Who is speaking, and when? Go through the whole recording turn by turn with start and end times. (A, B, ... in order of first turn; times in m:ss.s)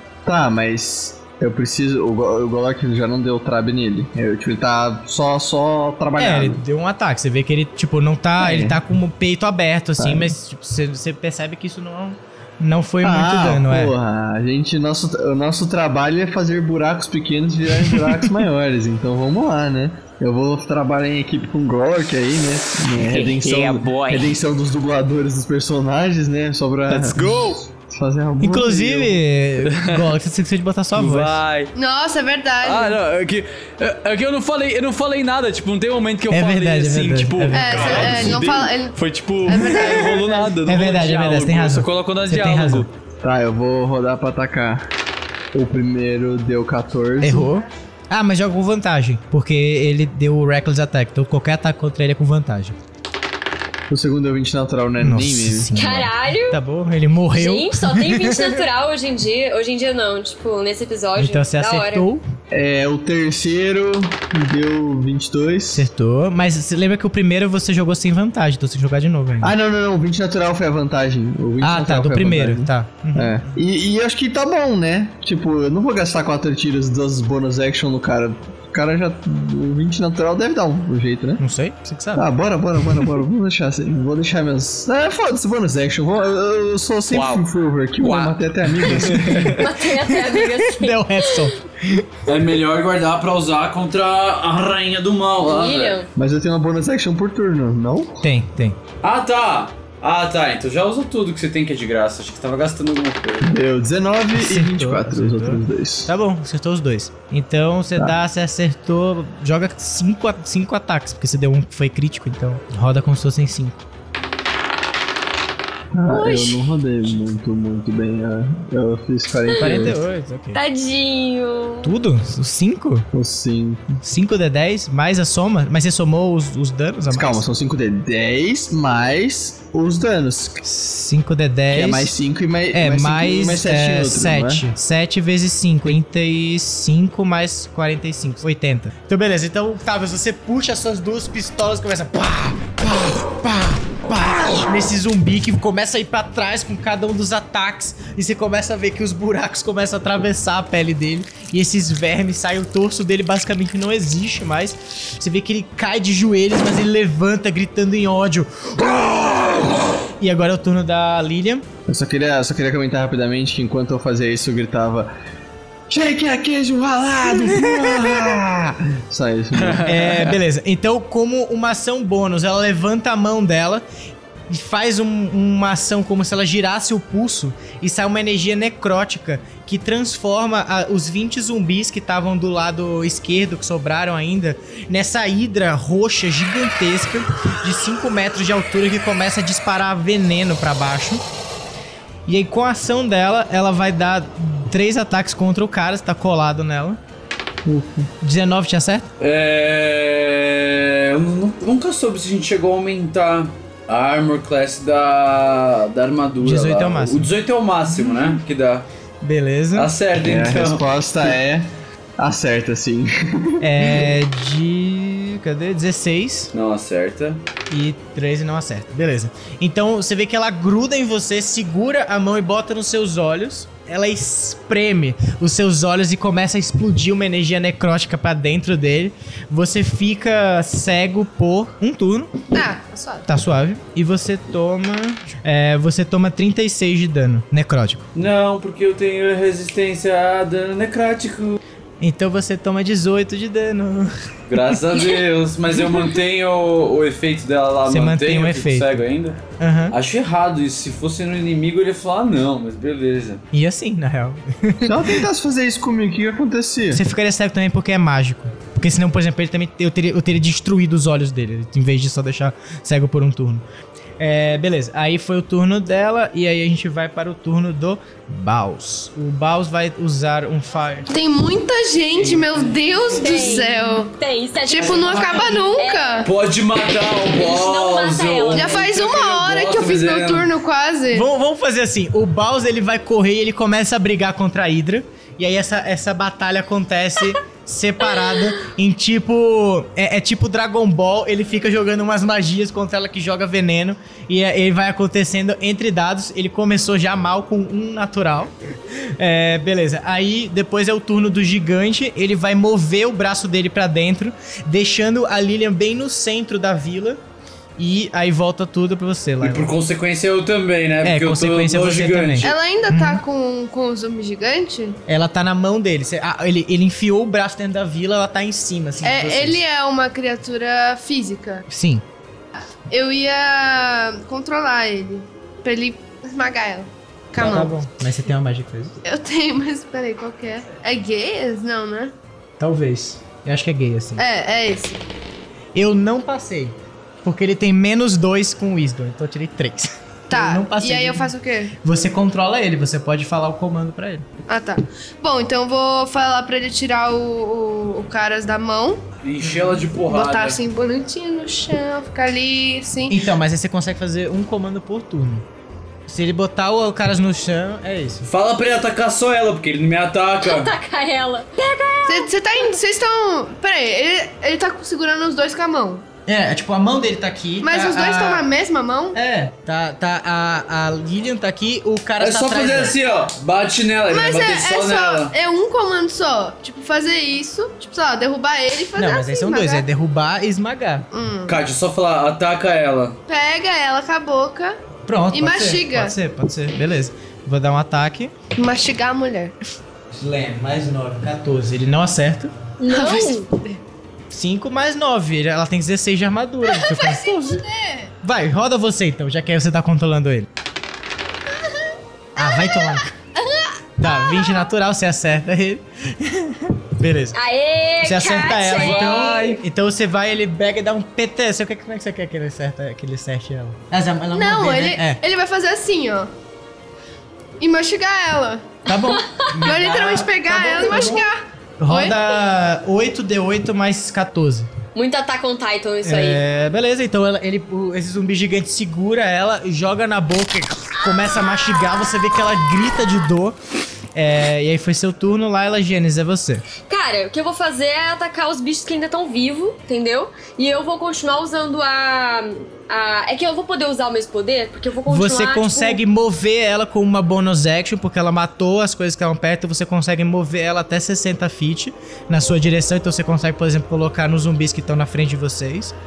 0:00.3-0:06.6 A
0:06.2-0:13.9 B
0:08.4-0:08.8 A
0:10.0-0:10.3 A
0:13.0-0:29.2 A
0:22.9-0:24.4 C
0:26.9-0:27.6 C
0:28.4-0:31.4 B
0:29.6-0:30.1 C
0:31.0-0:31.7 C
0:31.8-0:33.0 D
0:32.6-0:42.9 C
0:36.3-0:38.4 B
0:37.5-0:40.5 D
0:40.6-0:42.9 B
0:43.2-0:44.9 A
0:45.5-0:47.5 A
0:47.2-0:52.8 B
0:53.9-0:55.7 A
0:55.0-0:58.6 B
0:55.8-0:56.6 E
0:57.4-1:02.1 E
1:01.2-1:02.2 B
1:02.5-1:05.8 A
1:05.7-1:09.5 B
1:09.4-1:21.4 A
1:11.6-1:13.5 B
1:21.4-1:22.3 B
1:22.2-1:29.6 A
1:27.1-1:27.5 C
1:28.0-1:29.6 C
1:29.0-1:32.1 B
1:29.6-1:31.5 E
1:32.3-1:36.0 F
1:35.5-1:36.1 E
1:36.2-1:38.2 A
1:38.2-1:38.8 B
1:39.0-1:43.5 F
1:43.4-1:46.1 A
1:44.4-1:53.8 B
1:55.9-2:00.0 A
1:56.1-1:56.7 E
1:59.5-1:59.9 E
1:59.6-2:00.6 B
2:00.5-2:01.9 E
2:01.8-2:03.1 B
2:03.1-2:03.8 A
2:04.0-2:07.4 B
2:07.1-2:10.6 A
2:10.6-2:12.1 B
2:11.7-2:14.7 A
2:12.7-2:41.7 B
2:41.9-2:45.1 A
2:45.9-2:49.9 A
2:47.6-2:48.2 B
2:49.5-2:50.4 C
2:49.9-2:53.8 B
2:54.5-3:11.2 B
3:12.3-3:17.0 B
3:17.7-3:18.1 A
3:18.2-3:19.1 B
3:19.2-3:28.9 F
3:26.4-3:27.3 B
3:29.2-3:29.9 B
3:29.8-3:30.9 F
3:30.2-3:34.1 A
3:33.6-3:36.5 B
3:36.5-3:37.4 F
3:37.7-3:52.3 B
3:52.5-3:53.3 D
3:53.3-3:58.1 B
3:58.1-4:01.6 F
4:02.0-4:04.1 B
4:04.5-4:09.4 F
4:07.9-4:09.0 B
4:09.6-4:10.0 B
4:09.9-4:13.4 F
4:13.5-4:15.2 B
4:14.8-4:17.0 A
4:16.9-4:23.6 B
4:24.2-4:31.1 B
4:31.1-4:34.1 D
4:32.2-4:33.2 B
4:33.2-4:36.2 E
4:34.7-4:36.3 D
4:35.2-4:35.6 B
4:36.2-4:40.5 F
4:37.4-4:38.8 E
4:38.5-4:41.3 D
4:41.1-4:58.5 B
4:59.2-5:07.2 B
5:07.8-5:09.7 B
5:09.4-5:12.6 F
5:11.0-5:13.2 B
5:12.4-5:15.0 D
5:15.1-5:19.6 B
5:19.0-5:21.6 D
5:21.7-5:22.0 B
5:22.9-5:27.8 D
5:27.4-5:29.0 B
5:29.0-5:32.1 D
5:32.6-5:34.2 B
5:34.2-5:35.0 D
5:35.8-5:44.3 B
5:40.3-5:41.7 D
5:44.5-5:49.0 D
5:49.2-5:50.6 F
5:49.4-5:49.8 B
5:50.0-5:53.2 D
5:53.1-5:55.4 B
5:56.1-5:58.2 B
5:58.2-6:00.7 F
6:00.4-6:02.3 E
6:02.1-6:06.0 D
6:06.3-6:08.4 B
6:07.6-6:09.2 D
6:09.1-6:13.0 B
6:12.2-6:15.3 F
6:14.1-6:19.8 D
6:19.0-6:21.0 B
6:21.1-6:21.6 D
6:21.5-6:23.2 F
6:23.3-6:24.8 D
6:25.1-6:28.3 B
6:25.3-6:26.2 D
6:28.6-6:29.6 D
6:30.2-6:32.5 B
6:32.8-6:33.5 E
6:32.9-6:33.8 D
6:34.3-6:37.6 B
6:36.8-6:38.1 D
6:38.2-6:40.5 B
6:42.4-6:43.1 B
6:42.6-6:44.5 D
6:44.0-6:47.4 B
6:47.3-6:49.3 E
6:48.0-6:55.2 B
6:48.8-6:49.6 F
6:54.3-6:56.3 D
6:57.6-6:58.7 D
6:58.9-7:01.2 B
6:59.2-7:00.0 E
6:59.6-7:02.2 D
7:00.7-7:01.2 E
7:01.8-7:04.7 B
7:05.0-7:06.4 E
7:06.0-7:13.6 B
7:14.2-7:16.6 B
7:16.9-7:26.0 E
7:25.1-7:36.0 B